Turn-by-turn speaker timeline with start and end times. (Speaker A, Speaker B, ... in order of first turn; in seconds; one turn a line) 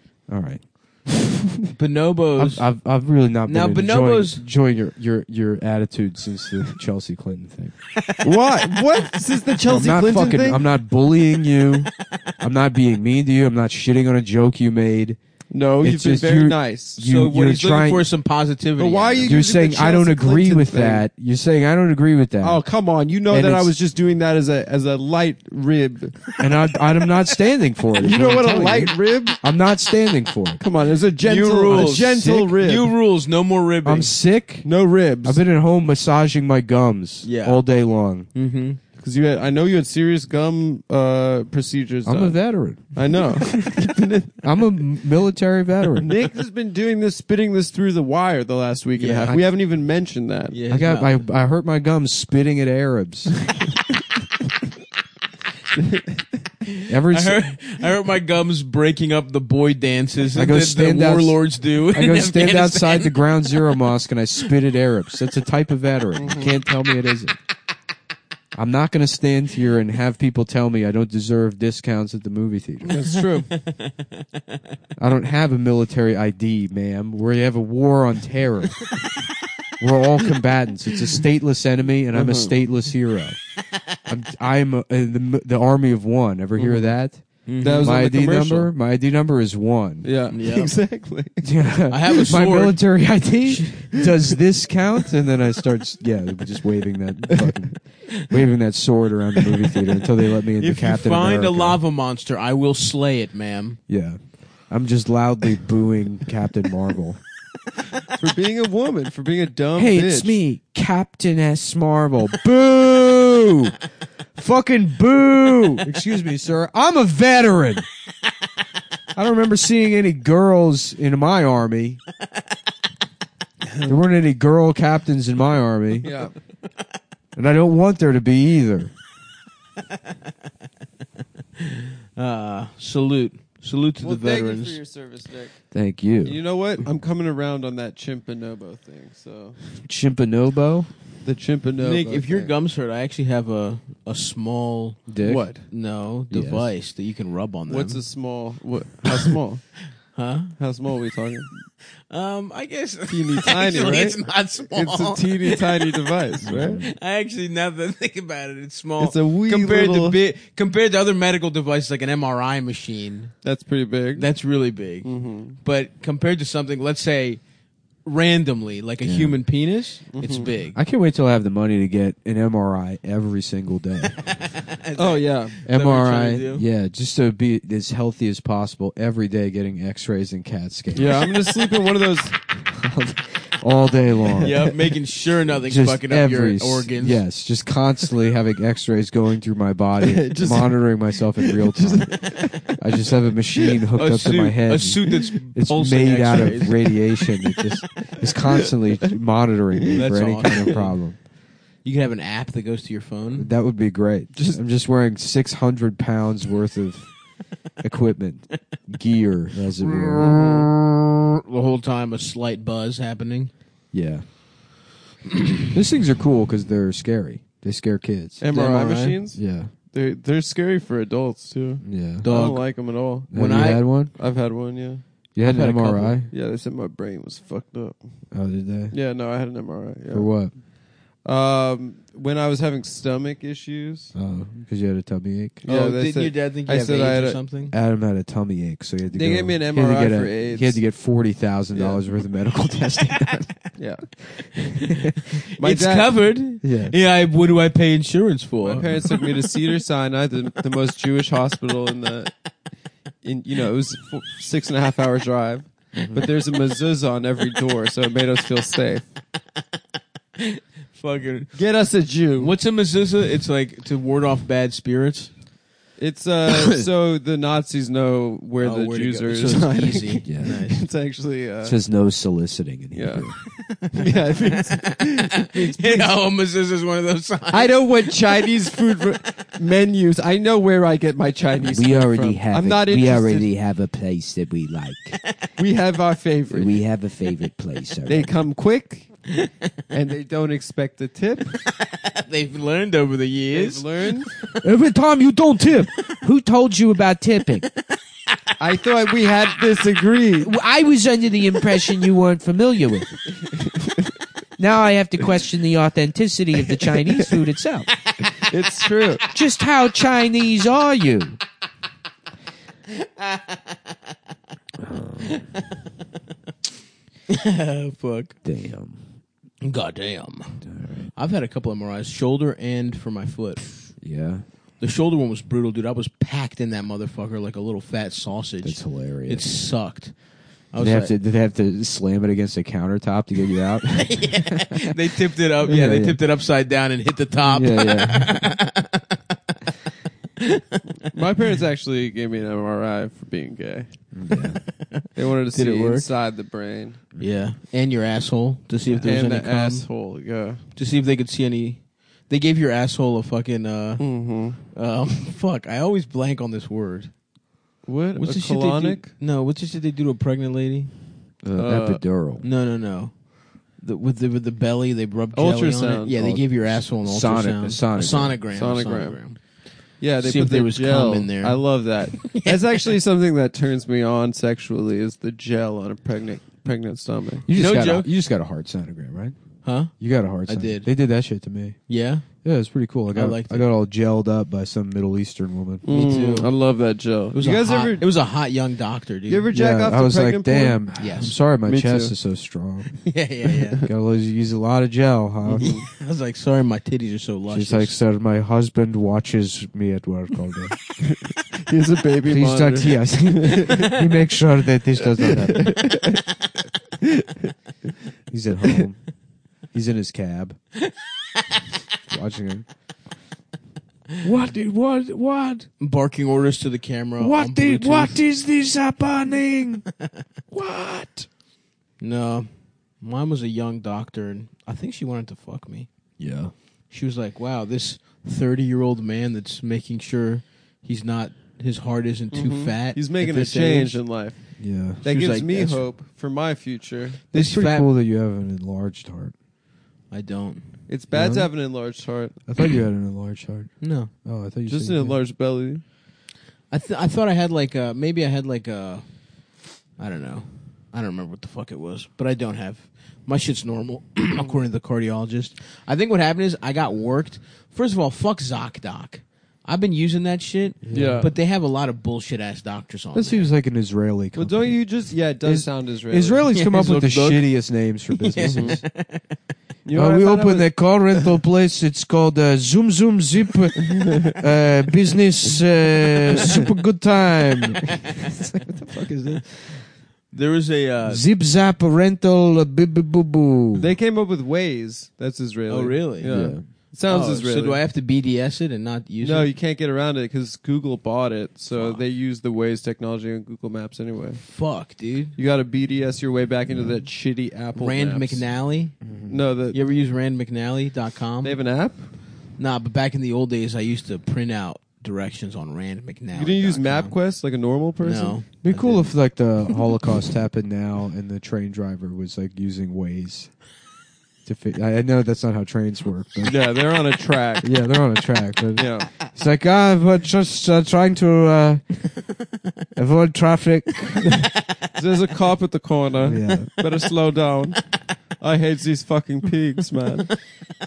Speaker A: 0.3-1.7
Speaker B: 1.7-2.7
Speaker A: 2.4-7.7
Speaker B: 3.5-4.4
Speaker B: 8.0-8.2
Speaker C: 8.2-10.6
Speaker A: 9.7-15.2
Speaker C: 15.5-17.2
Speaker A: 15.8-18.1
Speaker B: 17.0-19.4
Speaker C: 18.8-21.0
Speaker A: 19.2-22.6
Speaker C: 22.4-26.2
Speaker A: 23.3-23.7
Speaker A: 26.4-30.6
Speaker C: 28.0-29.4
Speaker C: 30.6-32.9
Speaker B: 31.2-34.1
Speaker A: 31.7-32.5
Speaker A: 33.8-34.7
Speaker C: 34.6-35.4
Speaker A: 35.2-38.3
Speaker B: 37.2-37.6
Speaker B: 38.3-38.8
Speaker C: 39.0-42.4
Speaker A: 42.0-43.7
Speaker C: 42.9-44.5
Speaker A: 44.4-46.2
Speaker C: 45.9-50.6
Speaker B: 49.0-49.4
Speaker B: 50.5-51.2
Speaker A: 50.7-53.3
Speaker C: 55.8-56.2
Speaker B: 56.7-63.2
Speaker A: 56.9-57.5
Speaker A: 60.3-67.4
Speaker C: 66.2-66.6
Speaker A: 68.5-73.0
Speaker C: 72.8-73.5
Speaker B: 72.9-74.6
Speaker A: 75.0-78.9
Speaker A: 79.8-83.4
Speaker C: 82.1-82.5
Speaker A: 84.0-87.2
Speaker C: 86.6-86.9
Speaker B: 87.5-87.9
Speaker C: 87.6-88.7
Speaker A: 87.8-90.1
Speaker C: 90.0-91.5
Speaker B: 90.3-90.7
Speaker A: 91.4-101.8
Speaker B: 91.9-92.8
Speaker C: 93.9-94.4
Speaker B: 100.6-103.8
Speaker A: 103.9-107.2
Speaker C: 108.1-110.4
Speaker A: 109.8-113.8
Speaker A: 114.3-117.8
Speaker A: 119.1-122.0
Speaker A: 123.8-126.1
Speaker C: 126.0-126.3
Speaker A: 127.3-128.9
Speaker B: 131.6-134.8
Speaker C: 134.0-135.6
Speaker A: 135.7-136.4
Speaker C: 136.2-139.6
Speaker A: 139.8-140.9
Speaker C: 141.2-142.5
Speaker B: 141.8-148.0
Speaker A: 145.1-145.6
Speaker C: 145.2-145.6
Speaker A: 146.3-146.7
Speaker C: 147.7-149.6
Speaker B: 150.1-150.5
Speaker C: 150.6-151.5
Speaker B: 152.1-155.8
Speaker C: 153.1-154.2
Speaker C: 154.7-156.8
Speaker A: 156.4-156.8
Speaker B: 156.8-163.3
Speaker C: 159.0-160.2
Speaker C: 163.4-164.3
Speaker B: 164.2-167.4
Speaker C: 165.0-165.6
Speaker B: 168.0-170.8
Speaker A: 169.0-169.4
Speaker C: 170.1-170.5
Speaker A: 170.8-174.5
Speaker B: 174.4-176.7
Speaker C: 174.9-175.6
Speaker A: 175.7-181.3
Speaker C: 180.9-182.4
Speaker A: 182.6-184.7
Speaker C: 184.3-184.7
Speaker B: 184.4-187.2
Speaker A: 185.5-201.2
Speaker C: 190.0-193.0
Speaker B: 193.9-197.0
Speaker C: 198.1-199.1
Speaker C: 199.8-200.9
Speaker B: 199.9-200.9
Speaker B: 201.8-203.5
Speaker A: 203.4-207.1
Speaker C: 204.3-204.6
Speaker A: 207.8-210.6
Speaker B: 209.8-213.5
Speaker C: 210.1-210.7
Speaker A: 213.9-214.3
Speaker A: 215.7-218.4
Speaker C: 218.4-225.0
Speaker B: 218.5-219.2
Speaker A: 219.3-219.7
Speaker A: 221.8-222.7
Speaker B: 222.2-223.8
Speaker A: 223.3-224.1
Speaker A: 225.3-226.3
Speaker B: 225.4-226.2
Speaker C: 226.3-228.0
Speaker A: 228.3-228.9
Speaker C: 228.9-230.6
Speaker A: 230.1-230.5
Speaker C: 231.2-234.1
Speaker A: 234.1-235.6
Speaker C: 235.6-237.4
Speaker B: 235.7-237.7
Speaker A: 237.7-243.5
Speaker C: 239.1-240.8
Speaker C: 241.7-242.0
Speaker C: 243.8-244.1
Speaker B: 244.9-249.2
Speaker C: 245.6-246.3
Speaker A: 246.6-246.9
Speaker C: 248.6-252.3
Speaker C: 253.2-259.0
Speaker B: 260.4-261.5
Speaker C: 261.5-262.6
Speaker B: 262.4-265.3
Speaker C: 266.0-271.8
Speaker A: 266.5-266.9
Speaker B: 268.6-270.8
Speaker A: 270.2-270.6
Speaker A: 271.6-273.4
Speaker C: 272.9-276.1
Speaker B: 273.5-277.8
Speaker C: 277.5-283.5
Speaker A: 281.6-285.2
Speaker C: 285.6-286.8
Speaker A: 286.5-288.4
Speaker C: 288.1-289.2
Speaker C: 289.9-291.6
Speaker B: 291.9-293.9
Speaker C: 293.5-294.3
Speaker A: 294.6-297.7
Speaker C: 298.6-300.6
Speaker A: 300.4-303.2
Speaker C: 303.6-304.1
Speaker A: 304.6-307.9
Speaker C: 308.2-309.2
Speaker A: 309.3-311.4
Speaker B: 313.0-313.4
Speaker A: 314.8-315.4
Speaker B: 317.3-318.4
Speaker A: 318.4-319.0
Speaker B: 319.6-323.7
Speaker A: 320.6-321.1
Speaker A: 324.0-324.4
Speaker B: 324.8-330.1
Speaker A: 328.6-329.4
Speaker B: 330.7-331.1
Speaker A: 330.8-334.9
Speaker B: 333.9-339.6
Speaker A: 335.6-336.2
Speaker A: 337.4-338.4
Speaker B: 340.4-341.1
Speaker C: 341.1-343.9
Speaker A: 344.1-344.6
Speaker B: 344.4-346.1
Speaker C: 345.1-347.0
Speaker B: 347.2-349.9
Speaker C: 349.0-350.6
Speaker B: 350.8-357.1
Speaker C: 354.0-354.6
Speaker C: 357.8-359.1
Speaker B: 358.2-360.9
Speaker A: 361.4-362.4
Speaker C: 361.6-362.0
Speaker B: 362.4-369.6
Speaker C: 365.3-366.3
Speaker A: 366.2-368.4
Speaker C: 368.5-377.4
Speaker B: 370.2-372.9
Speaker A: 377.4-381.8
Speaker B: 377.5-378.1
Speaker B: 379.6-380.9
Speaker B: 381.9-382.3
Speaker A: 382.4-385.8
Speaker B: 383.1-383.6
Speaker C: 385.8-388.0
Speaker B: 385.9-386.5
Speaker B: 387.3-389.5
Speaker C: 389.3-391.0
Speaker A: 389.5-393.0
Speaker B: 391.0-391.3
Speaker C: 391.6-392.1
Speaker B: 393.0-393.8
Speaker A: 393.9-395.8
Speaker C: 395.5-395.8
Speaker B: 395.6-397.9
Speaker A: 397.5-400.8
Speaker C: 401.0-404.1
Speaker A: 402.3-405.7
Speaker C: 405.2-406.4
Speaker C: 407.0-407.5
Speaker A: 408.3-409.0
Speaker A: 409.7-410.6
Speaker A: 412.1-412.6
Speaker A: 414.2-415.7
Speaker B: 415.8-418.2
Speaker A: 417.2-419.8
Speaker A: 420.5-421.3
Speaker B: 422.0-425.9
Speaker A: 426.2-426.5
Speaker B: 426.9-434.0
Speaker C: 432.3-437.2
Speaker A: 434.6-435.0
Speaker B: 435.0-435.9
Speaker B: 437.3-437.9
Speaker A: 437.3-439.3
Speaker B: 440.1-440.7
Speaker C: 440.9-442.3
Speaker A: 441.1-441.5
Speaker A: 442.5-445.2
Speaker B: 443.8-444.1
Speaker C: 444.7-445.8
Speaker B: 446.7-449.4
Speaker B: 449.9-463.5
Speaker A: 460.8-461.2
Speaker C: 460.9-461.3
Speaker A: 463.1-464.8
Speaker C: 464.3-466.5
Speaker A: 465.4-468.8
Speaker B: 466.5-469.4
Speaker C: 468.4-468.8
Speaker C: 469.8-470.7
Speaker A: 469.9-479.8
Speaker C: 474.0-474.4
Speaker B: 480.3-481.2
Speaker A: 481.1-483.9
Speaker C: 483.8-487.8
Speaker B: 485.7-486.5
Speaker A: 486.3-486.6
Speaker B: 487.1-489.5
Speaker C: 489.2-494.5
Speaker B: 491.7-492.0
Speaker B: 494.4-495.3
Speaker C: 495.4-498.5
Speaker B: 497.7-498.9
Speaker A: 499.0-499.4
Speaker C: 499.3-499.8
Speaker B: 499.7-501.6
Speaker C: 501.4-502.1
Speaker B: 502.5-507.1
Speaker C: 506.3-508.4
Speaker B: 508.0-509.1
Speaker A: 508.6-513.5
Speaker A: 514.4-516.6
Speaker C: 516.4-517.7
Speaker A: 517.6-522.0
Speaker C: 518.8-519.1
Speaker A: 523.0-524.5
Speaker C: 524.9-530.4
Speaker A: 526.2-526.7